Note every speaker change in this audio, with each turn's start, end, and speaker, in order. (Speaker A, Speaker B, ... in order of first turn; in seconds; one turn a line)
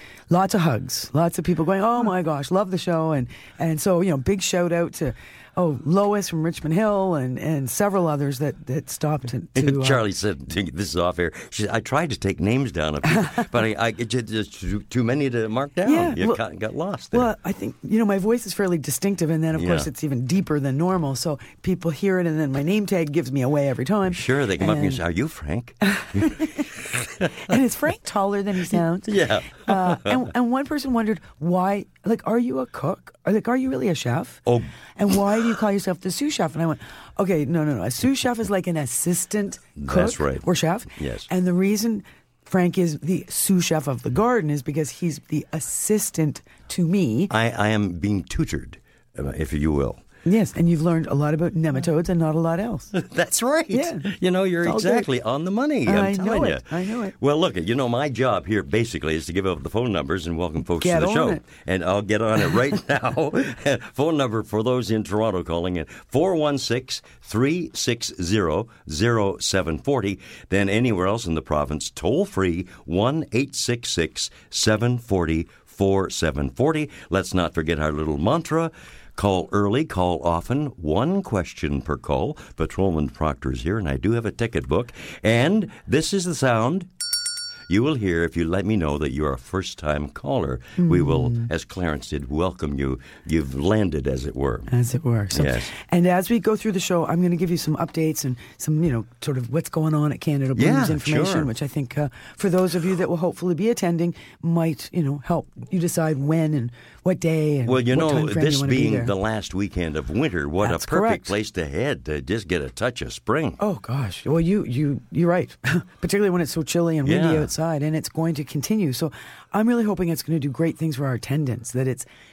Speaker A: 0.3-10.0
Speaker B: 9.6-17.3
Speaker A: 15.8-16.4
Speaker A: 17.1-25.0
Speaker B: 19.6-19.9
Speaker B: 24.1-27.5
Speaker A: 25.9-26.7
Speaker A: 27.4-34.4
Speaker B: 29.1-30.3
Speaker A: 35.0-47.3
Speaker B: 39.8-41.3
Speaker B: 47.3-50.0
Speaker A: 50.2-52.9
Speaker B: 53.0-86.9
Speaker A: 53.7-54.1
Speaker A: 54.6-55.1
Speaker A: 55.9-57.1
Speaker A: 60.8-61.4
Speaker B: 87.7-94.7
Speaker A: 90.8-91.5
Speaker A: 94.7-109.1
Speaker B: 95.3-95.7
Speaker B: 100.6-101.5
Speaker B: 107.7-113.6
Speaker A: 110.6-111.3
Speaker A: 113.6-122.1
Speaker B: 117.0-117.5